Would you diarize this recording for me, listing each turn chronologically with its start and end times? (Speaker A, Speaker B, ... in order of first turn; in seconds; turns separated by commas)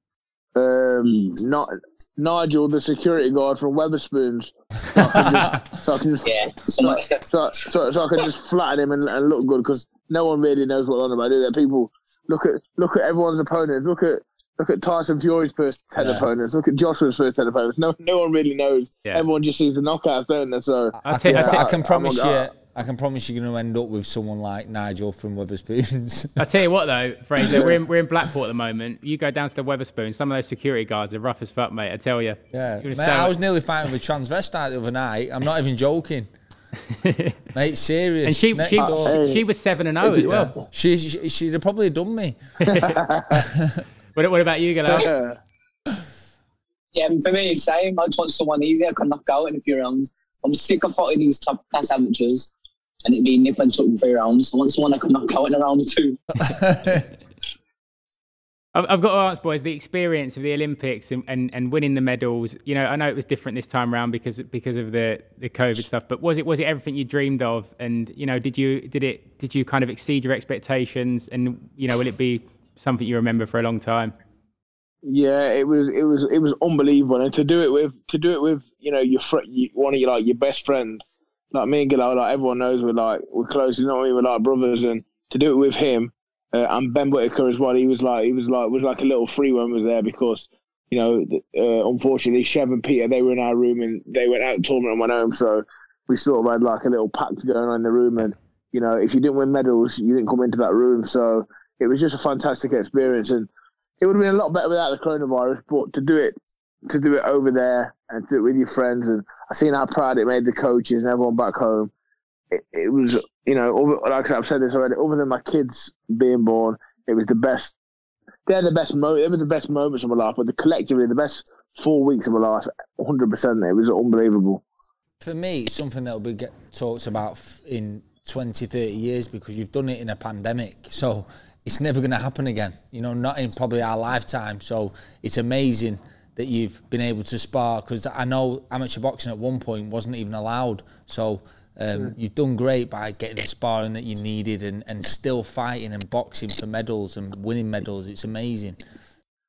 Speaker A: 0.5-22.5, Speaker B: 5.1-5.5, Speaker C: 6.2-7.2, Speaker B: 16.0-16.3, Speaker B: 21.0-26.4, Speaker D: 21.0-21.6, Speaker D: 26.4-33.3, Speaker B: 27.4-27.7, Speaker B: 32.5-36.3, Speaker D: 36.9-37.4, Speaker B: 37.5-39.2, Speaker D: 38.2-40.5, Speaker A: 38.7-39.4, Speaker A: 40.0-40.6, Speaker B: 40.7-42.4, Speaker A: 42.6-43.5, Speaker D: 42.7-43.0, Speaker B: 43.5-43.8, Speaker D: 44.1-45.1, Speaker A: 44.9-45.4, Speaker C: 46.9-52.5, Speaker C: 53.0-56.3, Speaker B: 56.4-57.0, Speaker D: 58.7-74.1, Speaker A: 75.0-103.5, Speaker A: 104.0-106.3, Speaker A: 106.9-111.9, Speaker A: 112.5-117.7, Speaker A: 118.5-124.6, Speaker B: 125.2-148.8